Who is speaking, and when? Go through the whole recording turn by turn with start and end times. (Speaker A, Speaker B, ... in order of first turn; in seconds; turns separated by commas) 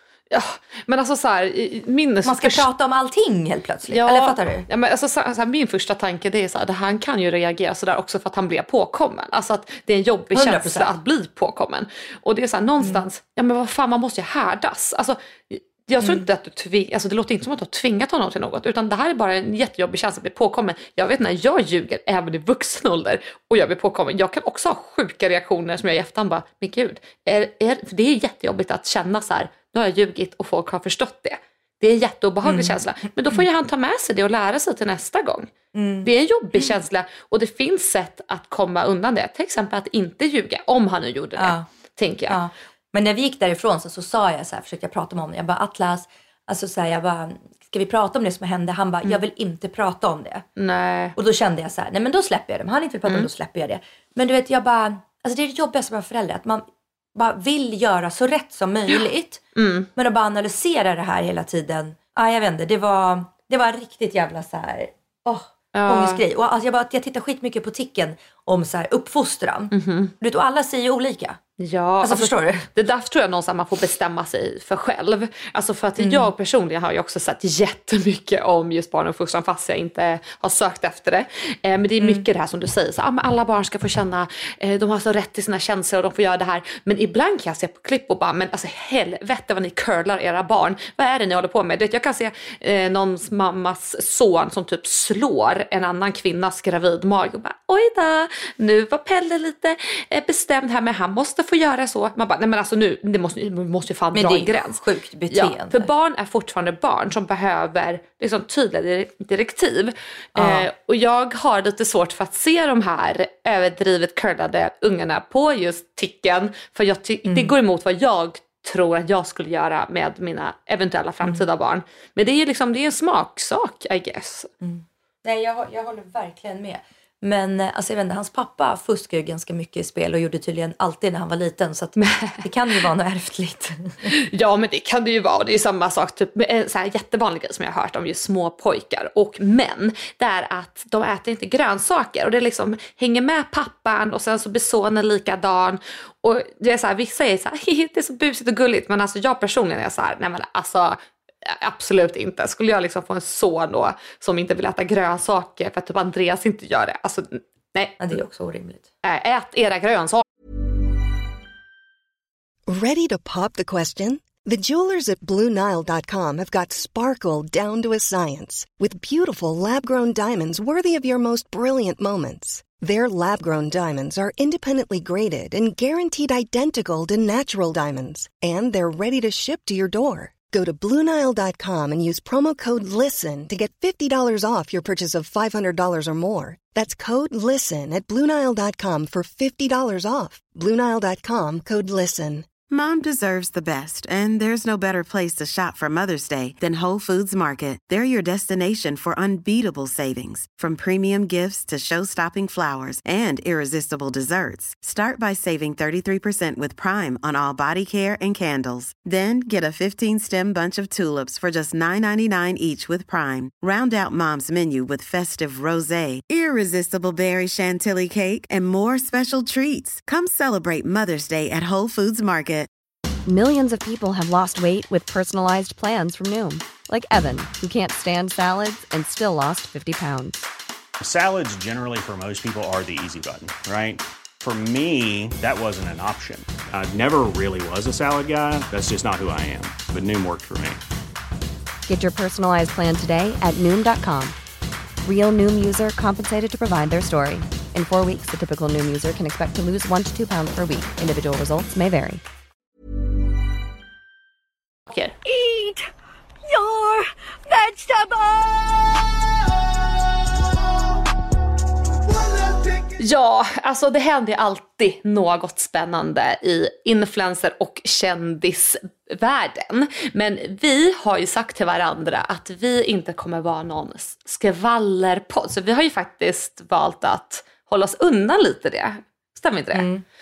Speaker A: 0.3-2.7, Speaker B: 2.2-4.7, Speaker A: 3.9-35.5, Speaker B: 10.3-10.9, Speaker B: 16.0-16.2, Speaker B: 32.4-33.4, Speaker B: 35.7-36.7, Speaker A: 36.0-42.4, Speaker B: 41.4-41.7, Speaker B: 42.3-50.5, Speaker A: 50.6-51.1, Speaker B: 51.1-59.4, Speaker A: 59.5-59.9, Speaker B: 60.0-71.4, Speaker A: 65.7-66.2, Speaker A: 69.7-70.1, Speaker A: 71.6-124.5, Speaker B: 72.0-72.7, Speaker B: 76.0-76.3, Speaker B: 82.0-82.2, Speaker B: 104.1-105.9, Speaker B: 110.3-110.7, Speaker B: 117.2-117.5, Speaker B: 124.6-134.1, Speaker A: 132.0-132.4, Speaker A: 134.0-158.0, Speaker B: 158.0-158.9, Speaker A: 159.0-160.2, Speaker C: 162.7-192.5, Speaker D: 192.7-222.7, Speaker E: 223.2-230.5, Speaker F: 231.0-240.8, Speaker E: 241.8-244.3, Speaker E: 245.0-252.2, Speaker A: 254.9-255.1, Speaker B: 255.3-255.8, Speaker B: 256.5-258.4, Speaker A: 263.0-279.9, Speaker B: 279.7-280.0